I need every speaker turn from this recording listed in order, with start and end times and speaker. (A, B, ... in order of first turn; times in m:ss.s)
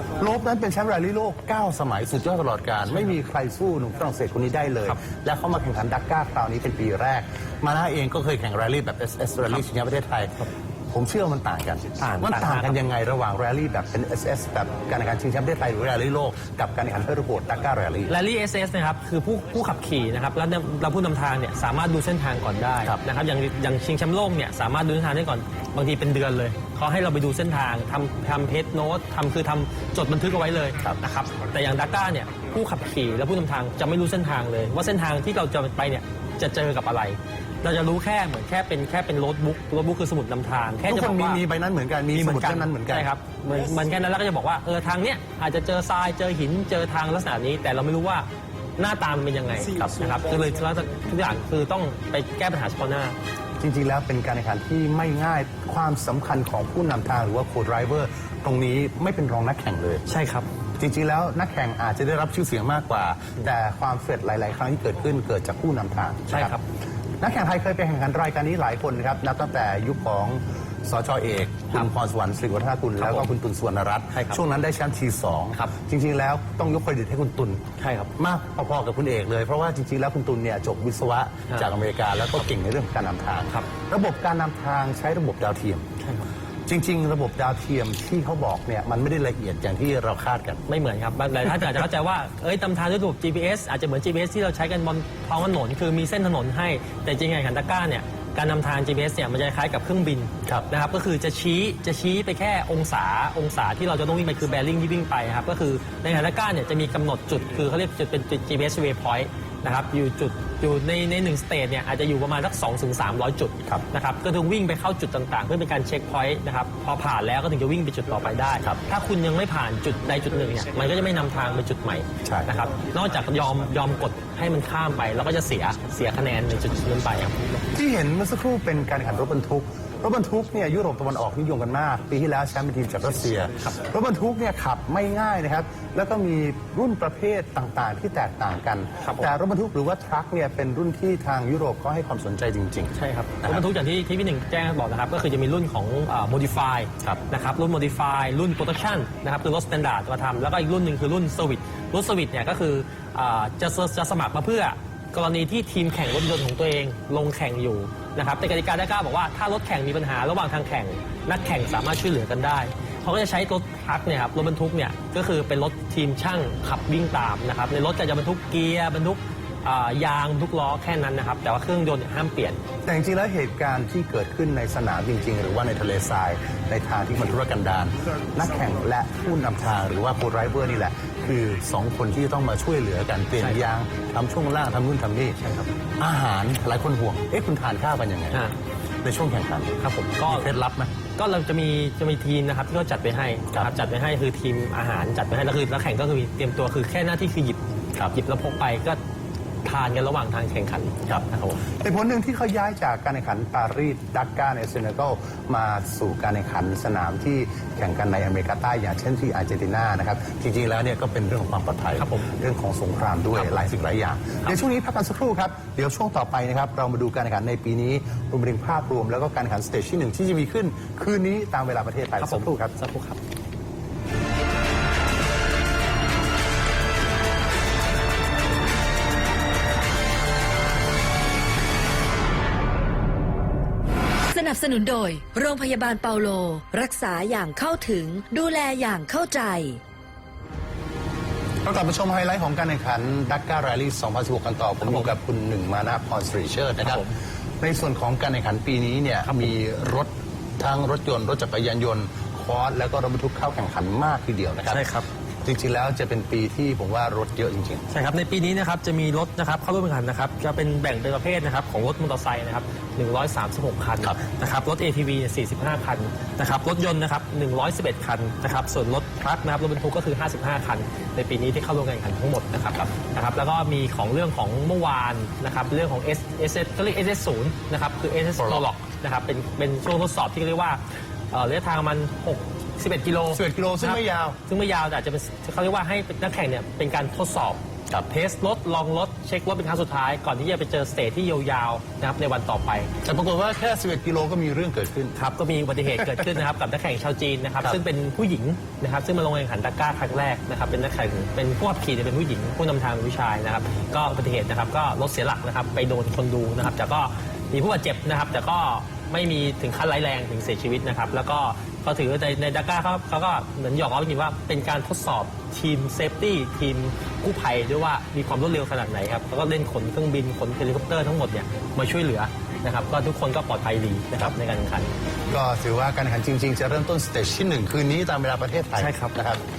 0:00.2-0:10.4 A
0:10.9-0:18.2 A
0:12.0-0:12.8 B
0:18.1-0:41.4 B
0:40.9-0:43.1 A
0:42.1-0:48.3 B
0:48.8-0:53.2 B
0:49.7-0:50.1 A
0:53.6-1:00.0 A
1:00.1-1:00.5 B
1:00.8-1:06.6 A
1:06.3-1:06.6 B
1:07.2-1:25.9 A
1:13.0-1:13.3 B
1:14.1-1:14.4 B
1:17.8-1:18.1 B
1:26.0-1:26.3 B
1:26.7-1:30.6 A
1:30.7-2:07.6 B
2:02.2-2:02.5 A
2:07.7-2:23.7 A
2:19.0-2:19.3 B
2:23.0-2:52.6 B
2:52.8-3:05.4 A
3:05.4-3:05.7 B
3:06.0-3:08.4 A
3:09.0-3:10.9 A
3:09.8-3:10.5 B
3:11.2-3:19.0 B
3:19.6-3:21.6 B
3:21.1-3:42.7 A
3:32.0-3:32.3 B
3:42.2-3:43.2 B
3:54.2-3:59.8 C
4:01.6-4:07.0 A
4:04.8-4:05.1 B
4:06.8-4:07.2 B
4:07.6-4:14.9 A
4:14.7-4:15.1 B
4:15.4-4:17.9 A
4:17.9-4:52.9 B
4:38.4-4:38.6 A
4:43.3-4:44.4 A
4:53.0-4:55.2 A
4:55.2-5:24.9 B
5:25.3-5:29.4 A
5:28.8-5:29.2 B